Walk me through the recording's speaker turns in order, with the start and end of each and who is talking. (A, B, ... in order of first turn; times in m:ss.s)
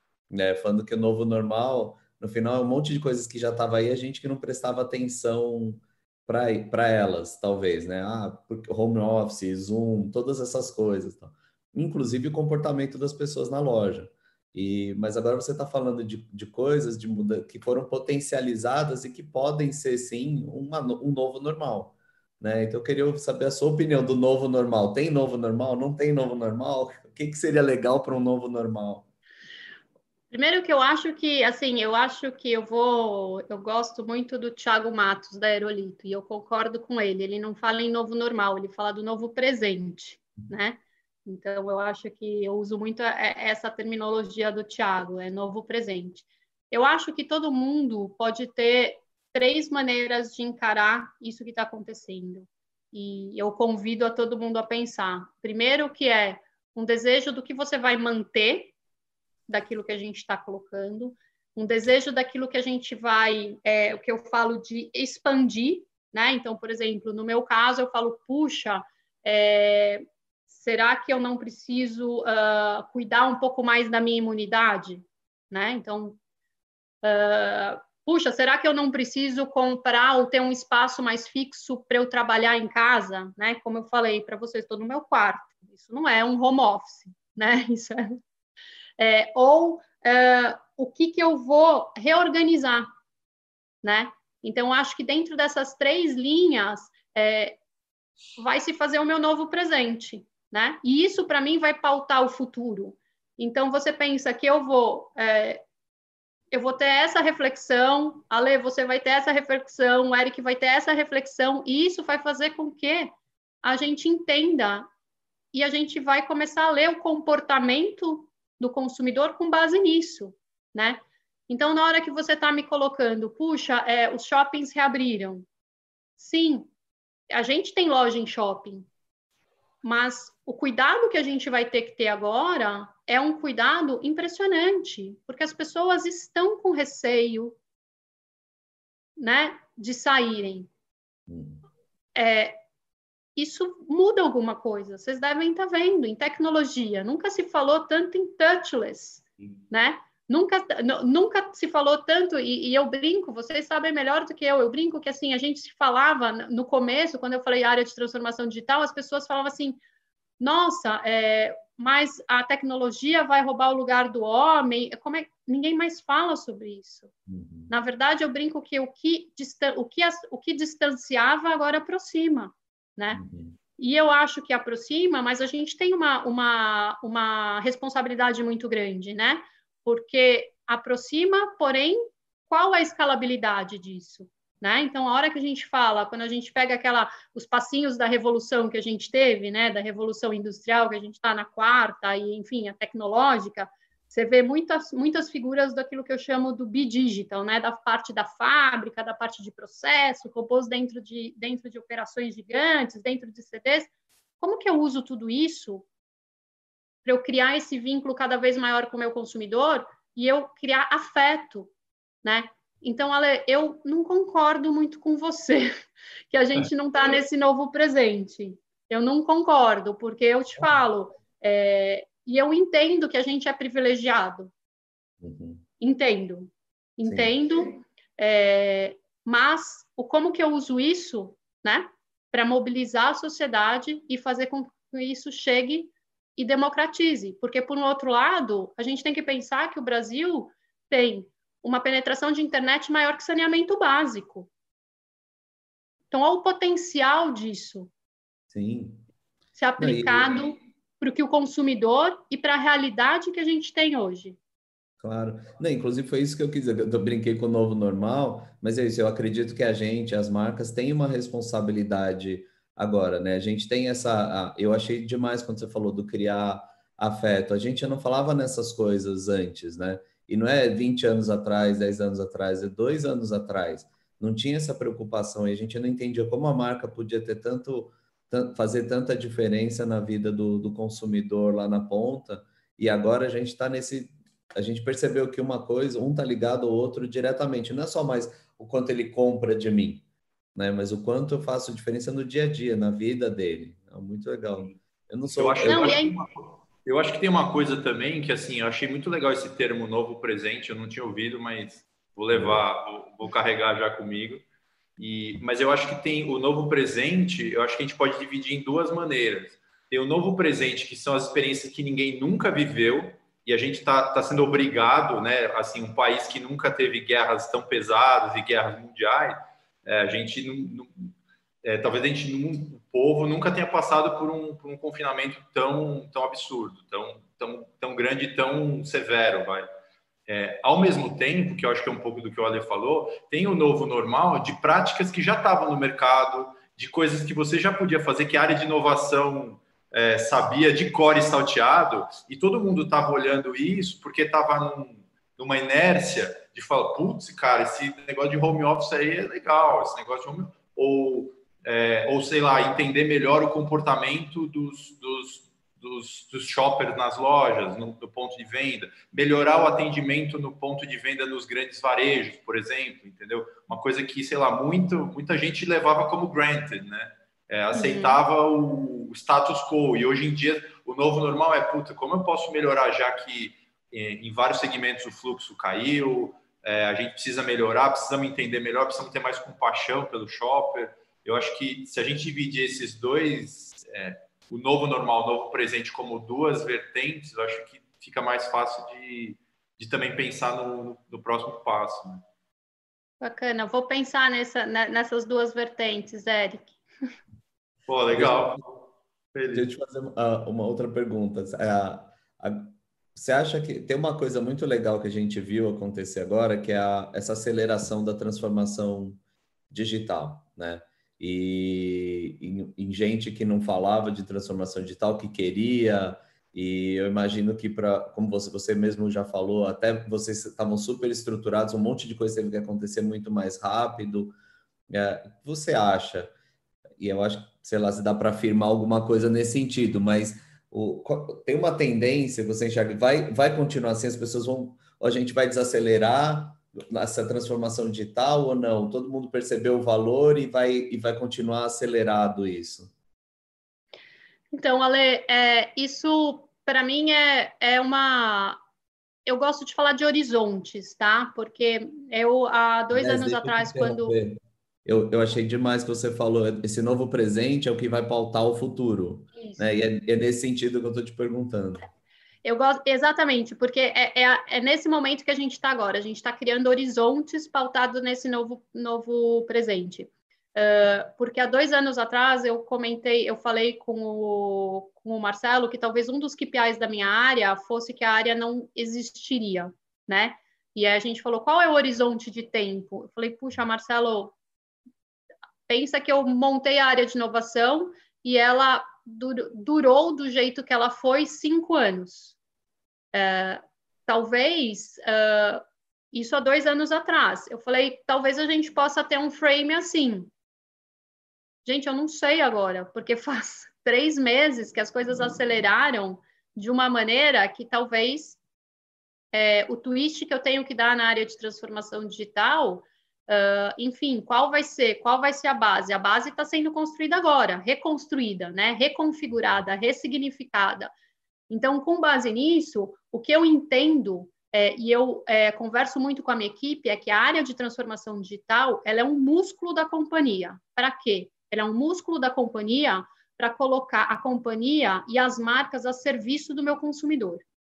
0:00.3-0:29.1 A
0:30.3-0:58.7 B
0:59.5-1:16.2 B
1:17.0-1:28.2 B
1:29.0-1:32.9 B
1:33.8-1:37.6 B
1:38.4-1:45.6 B
1:46.5-1:53.1 B
1:53.6-1:54.9 B
1:55.5-2:05.4 B
2:06.2-2:06.7 B
2:07.3-2:08.9 B
2:09.8-2:17.6 B
2:19.2-2:20.7 B
2:21.3-2:21.6 A
2:22.2-2:22.6 B
2:23.4-2:39.8 B
2:40.4-2:47.1 B
2:47.3-2:47.7 A
2:47.7-2:53.2 B
2:53.1-2:53.6 A
2:53.8-3:25.8 B
3:27.0-3:31.7 B
3:32.2-3:44.5 B
3:45.2-3:45.6 A
3:45.8-4:04.5 B
3:47.0-3:47.3 A
4:06.1-4:07.9 B
4:08.5-4:09.0 A
4:09.6-4:14.4 B
4:09.8-4:10.4 A
4:15.0-4:50.0 A
4:50.5-4:56.0 A
4:55.4-4:56.3 C
4:55.6-4:56.2 B
4:56.8-5:04.4 C
5:02.3-5:02.6 A
5:05.0-5:21.1 C
5:21.6-5:29.7 C
5:30.3-6:32.2 C
6:07.7-6:08.2 B
6:33.2-6:36.8 B
6:37.9-6:38.6 C
6:38.1-6:38.6 A
6:39.3-6:39.7 C
6:39.5-6:49.2 A
6:49.7-7:04.3 A
7:04.9-7:06.3 A
7:07.0-7:22.9 A
7:24.5-7:28.6 B
7:29.2-7:34.2 B
7:32.9-7:41.8 A
7:39.3-7:39.8 B
7:42.4-8:04.3 B
8:05.7-8:12.4 B
8:13.1-8:20.3 B
8:21.6-8:28.4 B
8:29.3-8:40.9 B
8:41.5-8:57.4 B